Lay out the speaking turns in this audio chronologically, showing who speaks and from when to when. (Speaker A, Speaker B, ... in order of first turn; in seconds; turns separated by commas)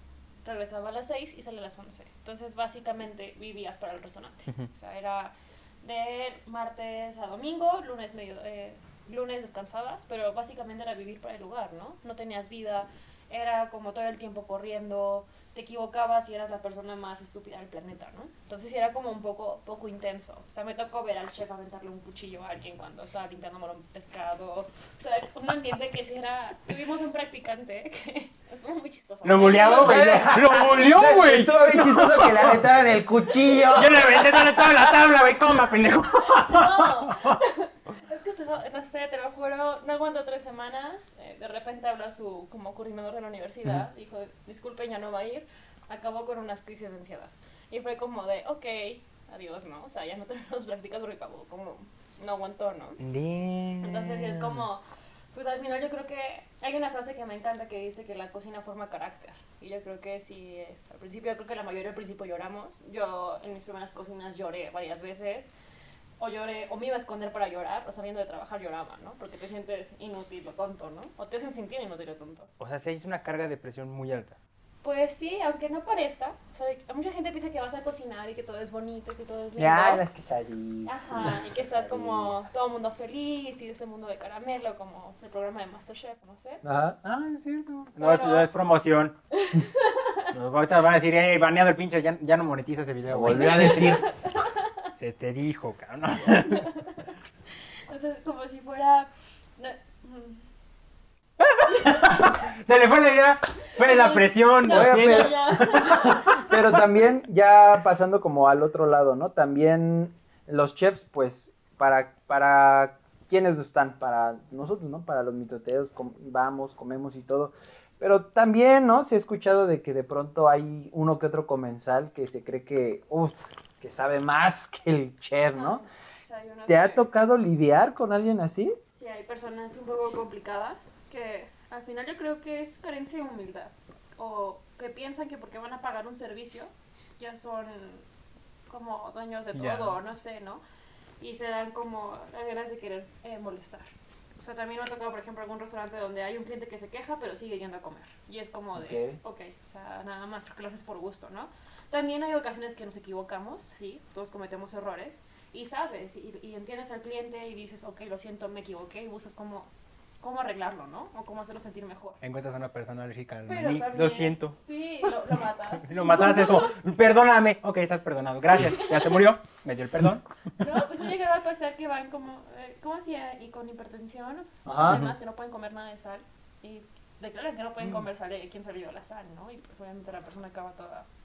Speaker A: 0.4-30.3, Speaker B: 29.2-32.6, Speaker C: 29.8-34.6, Speaker B: 33.6-37.4, Speaker A: 36.5-53.0, Speaker B: 53.0-54.6, Speaker A: 53.8-65.5, Speaker A: 66.2-72.5, Speaker B: 72.6-74.4, Speaker A: 74.8-80.0, Speaker C: 79.6-82.3, Speaker A: 80.8-86.6, Speaker C: 86.6-87.0, Speaker B: 87.0-89.2, Speaker A: 88.0-88.5, Speaker A: 89.3-90.2, Speaker B: 90.3-94.0, Speaker C: 93.0-94.1, Speaker A: 94.0-94.7, Speaker B: 94.9-96.7, Speaker A: 96.6-97.0, Speaker A: 97.9-100.4, Speaker B: 101.4-106.6, Speaker A: 103.8-106.5, Speaker C: 104.7-105.4, Speaker C: 106.4-125.8, Speaker A: 125.5-127.1, Speaker C: 126.7-128.8, Speaker A: 128.9-138.0, Speaker A: 138.7-140.6, Speaker B: 139.5-139.9, Speaker A: 141.2-162.2, Speaker C: 148.7-149.2, Speaker B: 162.2-164.6, Speaker A: 163.5-166.7, Speaker B: 165.7-170.6, Speaker A: 168.7-169.1, Speaker A: 170.6-181.1, Speaker C: 174.7-175.1, Speaker B: 174.8-175.1